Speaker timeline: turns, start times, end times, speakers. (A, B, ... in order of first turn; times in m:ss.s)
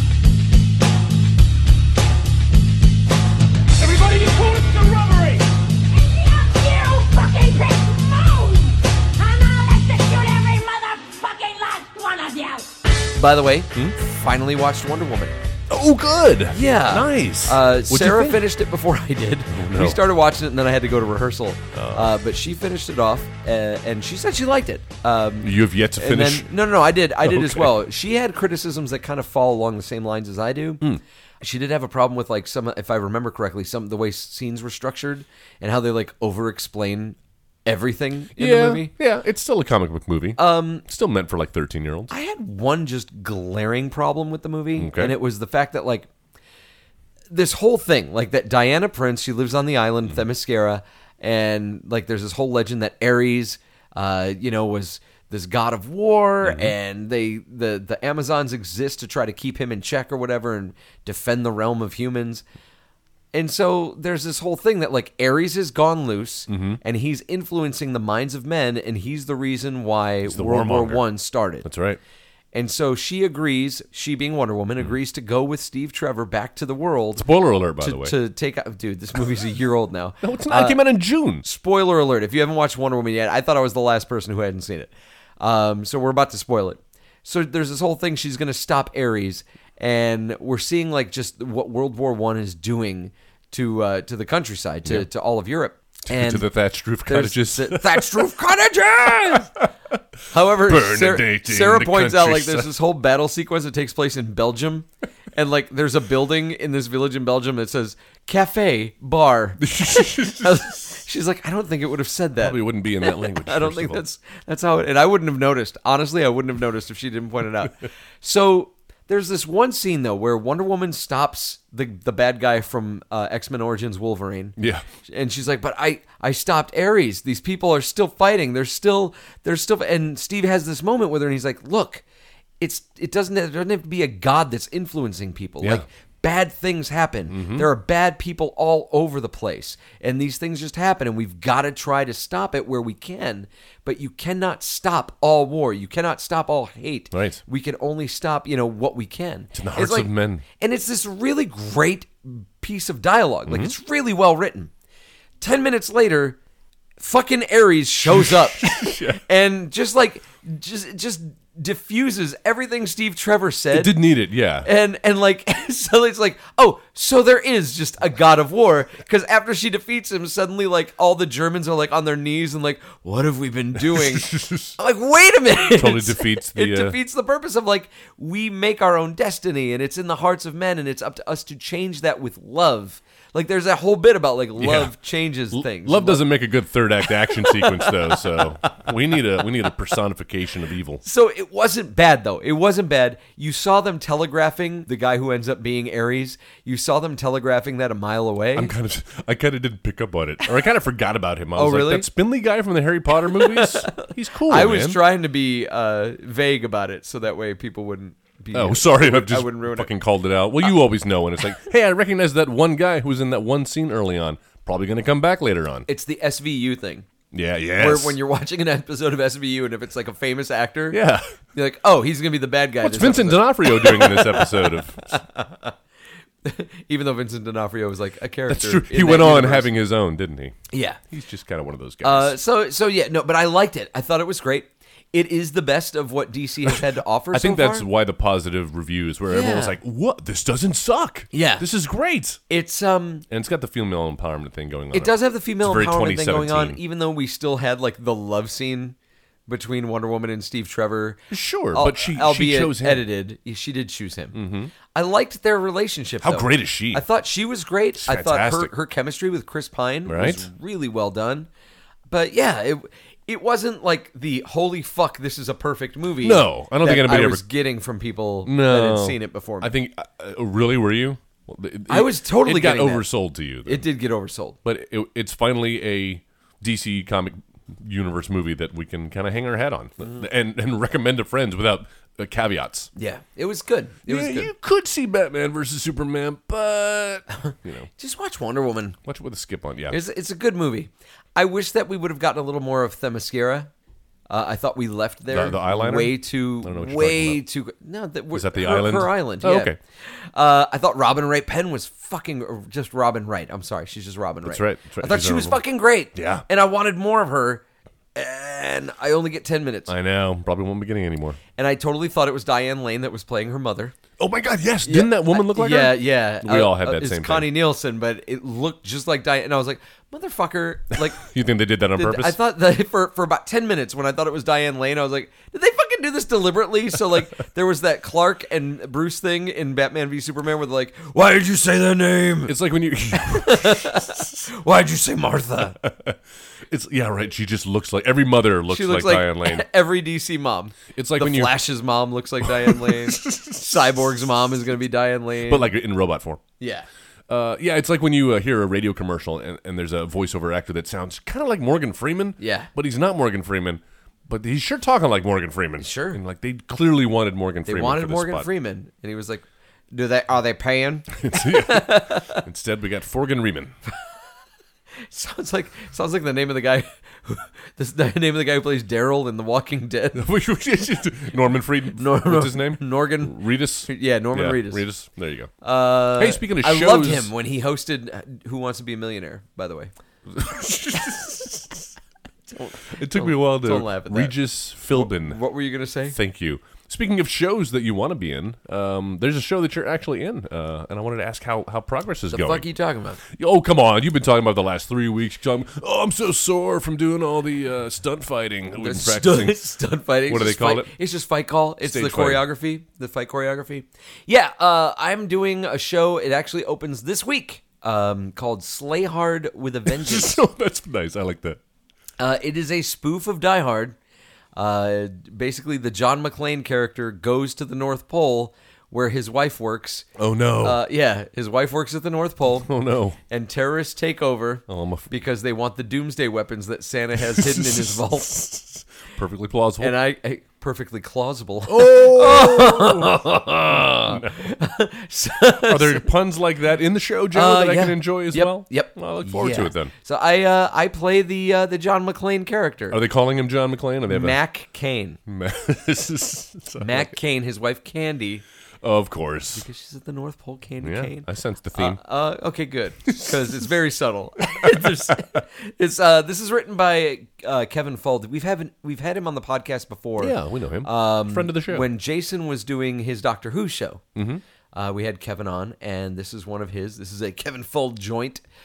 0:03.8-0:12.7 A
0:13.2-0:15.3 B
0:15.7-0:18.4 C
0:16.5-0:30.8 B
0:19.5-0:20.0 C
0:21.7-0:22.1 C
0:25.4-0:26.5 C
0:27.2-0:27.8 C
0:31.4-0:38.9 B
0:38.4-0:42.1 C
0:40.4-0:40.8 B
0:42.1-0:46.1 B
0:44.8-0:45.1 C
0:47.3-1:02.4 B
0:56.4-0:56.7 C
1:03.3-1:11.7 B
1:06.5-1:06.8 C
1:10.2-1:11.0 C
1:11.6-1:12.0 C
1:12.5-1:20.8 B
1:17.2-1:18.2 C
1:20.2-1:21.4 C
1:21.4-1:36.5 B
1:36.1-1:38.3 C
1:37.0-1:39.5 B
1:39.3-1:39.6 C
1:40.3-2:12.0 B
1:40.6-1:42.7 C
1:49.6-1:50.9 C
1:52.4-1:54.0 C
2:04.6-2:04.8 C
2:12.6-2:34.7 B
2:17.3-2:17.7 C
2:27.1-2:27.4 C
2:29.5-2:30.4 C
2:33.5-2:33.7 C
2:35.4-2:36.4 B
2:37.0-2:44.0 B
2:38.1-2:39.2 C
2:43.7-2:44.7 C
2:44.6-3:06.3 B
2:53.9-2:54.7 C
2:55.6-2:57.0 C
3:04.6-3:04.9 C
3:05.5-3:11.0 C
3:07.2-3:08.7 B
3:11.0-3:18.7 B
3:18.5-3:25.0 C
3:21.5-3:22.1 B
3:23.3-3:29.9 B
3:28.5-3:35.9 C
3:35.9-3:37.1 B
3:37.3-3:38.2 C
3:37.8-3:41.0 B
3:40.9-3:41.3 C
3:41.5-3:45.7 B
3:42.8-3:45.0 C
3:46.4-3:49.7 B
3:48.5-3:52.3 C
3:50.7-3:51.0 B
3:52.0-3:57.9 B
3:57.3-4:02.4 C
3:59.3-3:59.8 B
4:01.3-4:01.6 B
4:02.5-4:03.2 B
4:03.3-4:06.8 C
4:04.9-4:09.0 B
4:09.5-4:21.5 B
4:11.3-4:13.0 C
4:14.3-4:14.7 C
4:16.2-4:17.0 C
4:18.0-4:18.7 C
4:20.0-4:20.4 C
4:22.1-4:29.7 B
4:26.2-4:27.4 C
4:28.4-4:33.8 C
4:31.9-4:33.1 B
4:33.6-4:34.6 B
4:34.6-4:42.9 C
4:43.0-4:44.5 B
4:44.0-4:47.9 C
4:48.0-4:49.0 B
4:49.0-4:50.0 C
4:49.9-4:53.7 B
4:54.3-5:07.6 B
4:55.3-4:57.4 C
4:58.3-4:59.8 C
5:04.4-5:05.6 C
5:06.1-5:06.4 C
5:08.1-5:09.9 B
5:09.9-5:11.4 C
5:11.6-5:13.9 B
5:14.2-5:17.5 C
5:14.8-5:21.2 B
5:21.0-5:22.4 C
5:22.0-5:32.6 B
5:32.4-5:34.0 C
5:33.1-5:35.8 B
5:35.8-5:36.2 C
5:36.7-5:39.6 C
5:38.7-5:45.7 B
5:40.9-5:41.6 C
5:42.4-5:43.4 C
5:45.4-5:46.4 C
5:46.6-5:46.9 B
5:47.3-5:58.5 C
5:52.4-5:52.7 B
5:55.8-5:56.2 B
5:57.7-6:02.4 B
6:01.2-6:03.7 C
6:05.1-6:10.2 B
6:10.1-6:15.5 C
6:12.0-6:14.8 B
6:15.6-6:19.9 B
6:16.2-6:17.3 C
6:20.3-6:21.8 C
6:22.5-6:24.4 B
6:22.9-6:25.4 C
6:24.9-6:26.2 B
6:26.1-6:32.6 C
6:32.3-6:33.2 B
6:33.3-6:39.6 C
6:38.8-6:50.4 B
6:40.3-6:40.9 C
6:41.8-6:42.4 C
6:49.9-6:51.6 C
6:52.2-6:54.0 B
6:54.5-7:00.1 B
7:00.2-7:00.8 C
7:00.6-7:02.7 B
7:02.5-7:03.2 C
7:03.3-7:08.4 B
7:04.7-7:05.1 C
7:07.2-7:09.9 C
7:09.8-7:16.1 B
7:11.7-7:14.5 C
7:15.6-7:19.9 C
7:17.3-7:23.0 B
7:22.9-7:24.4 C
7:24.1-7:25.2 B
7:25.3-7:27.1 C
7:26.8-7:28.4 B
7:28.8-7:29.6 C
7:29.5-7:44.0 B
7:30.8-7:32.0 C
7:34.5-7:34.8 C
7:40.2-7:41.9 C
7:44.1-7:44.4 C
7:44.7-7:48.4 B